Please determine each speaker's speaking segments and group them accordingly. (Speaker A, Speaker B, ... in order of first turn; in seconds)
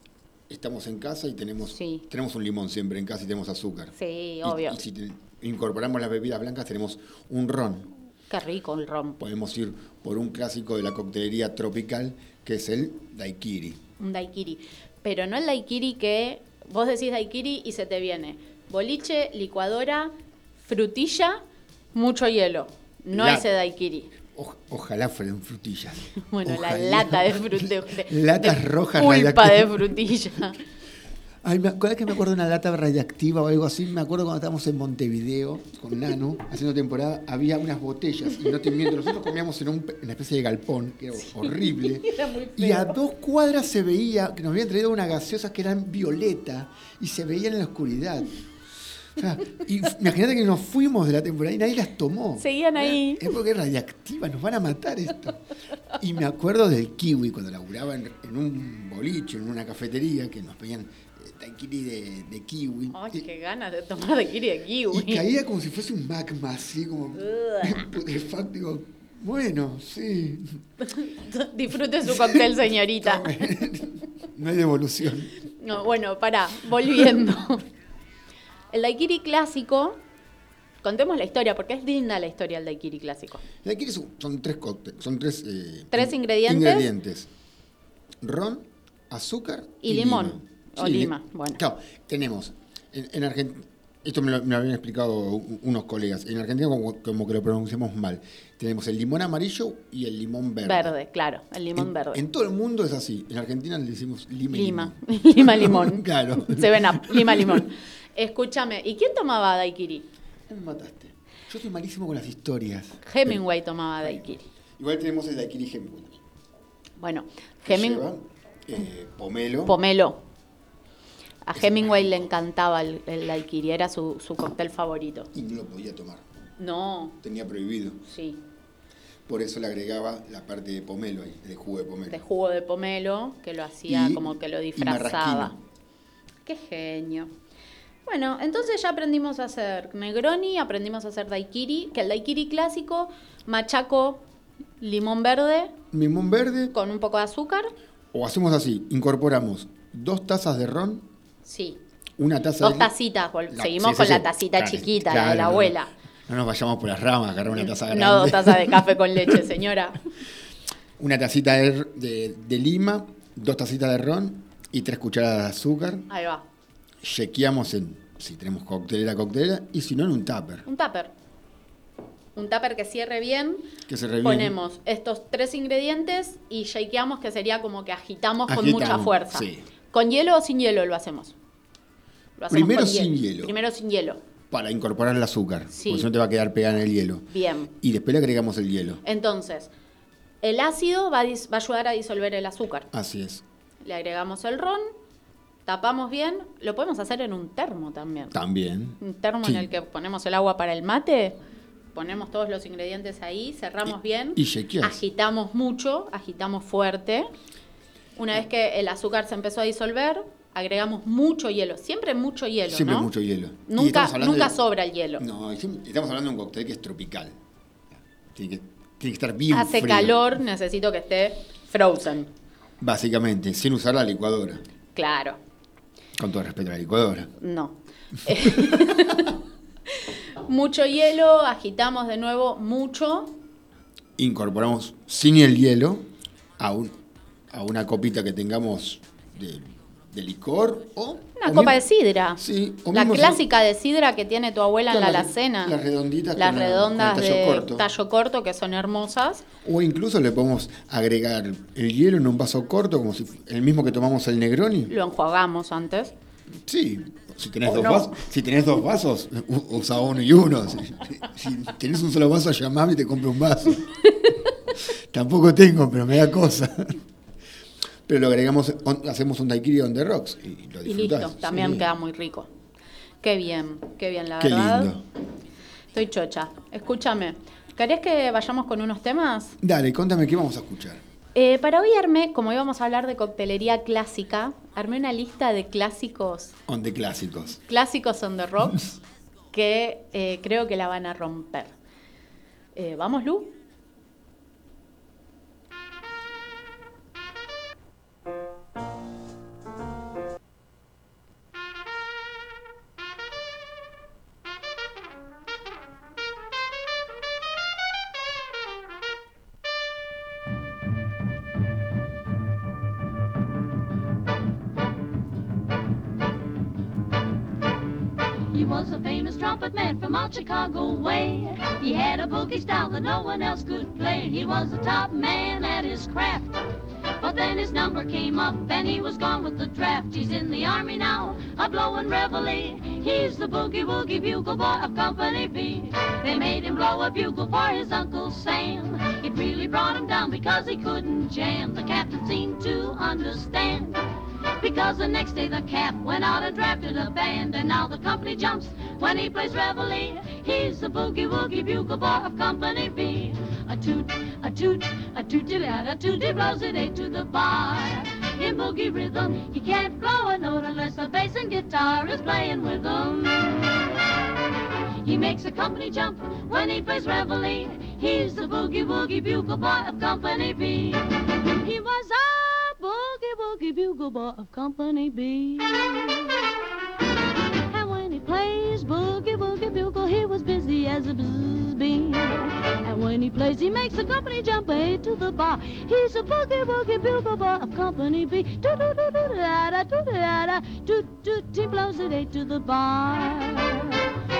Speaker A: 0.5-7.9, 9.2-13.8, 23.1-23.5, 24.1-30.2, 31.4-48.4, 49.2-55.4, 56.0-63.3, 64.9-70.6, 72.0-75.3, 83.6-87.3, 88.2-101.0, 101.8-107.7, 110.5-113.4, 114.8-116.2, 117.6-119.8, 121.5-122.3, 125.3-126.3, 127.2-128.0, 129.3-132.2, 133.9-135.6, 145.9-146.8, 148.1-151.1, 152.2-152.9, 153.5-159.4, 161.0-166.1, 167.0-170.7, 173.9-174.6, 178.5-179.7, 182.5-183.6, 184.5-189.0, 192.9-193.4, 198.3-199.7, 203.9-205.0, 212.7-214.6, 215.2-217.4, 218.3-220.3, 222.8-224.6, 226.2-227.3, 228.3-229.1, 234.2-241.8, 242.4-243.4, 244.9-247.9, 249.6-254.9, 256.6-263.8, 264.9-267.0, 268.1-271.9, 274.4-275.1, 279.6-281.0, 286.7-287.6
Speaker B: 1.7-2.0, 4.0-4.8, 8.3-9.2, 14.0-21.4, 21.9-24.1, 26.2-30.6, 41.2-43.0, 52.4-53.3, 62.9-65.3, 67.2-67.7, 70.8-73.5, 75.6-77.7, 78.7-80.0, 80.8-83.4, 85.9-86.9, 89.8-91.6, 100.6-102.2, 104.5-110.1, 113.0-114.5, 117.0-118.1, 119.7-120.2, 121.5-125.3, 126.6-127.2, 128.1-128.4, 132.1-135.5, 136.5-137.3, 138.1-144.2, 144.8-145.8, 146.7-147.7, 151.4-151.8, 152.6-155.9, 157.5-160.0, 166.1-166.4, 170.7-171.1, 172.4-181.3, 182.4-184.2, 185.7-186.1, 187.3-187.7, 189.0-189.7, 190.4-192.9, 193.8-194.9, 195.7-198.4, 199.0-201.4, 201.9-207.3, 208.2-213.1, 213.7-215.2, 219.5-222.3, 225.0-225.4, 227.4-229.3, 230.4-233.4, 241.4-242.4, 242.9-245.8, 246.4-249.5, 254.9-256.1, 257.7-258.2, 270.9-272.5, 273.2-274.9, 275.9-279.6, 281.4-286.6, 287.7-289.0, 289.5-291.7, 292.8-293.6
Speaker C: 318.5-326.5, 327.2-344.0, 344.6-363.9, 365.0-376.6, 377.7-394.0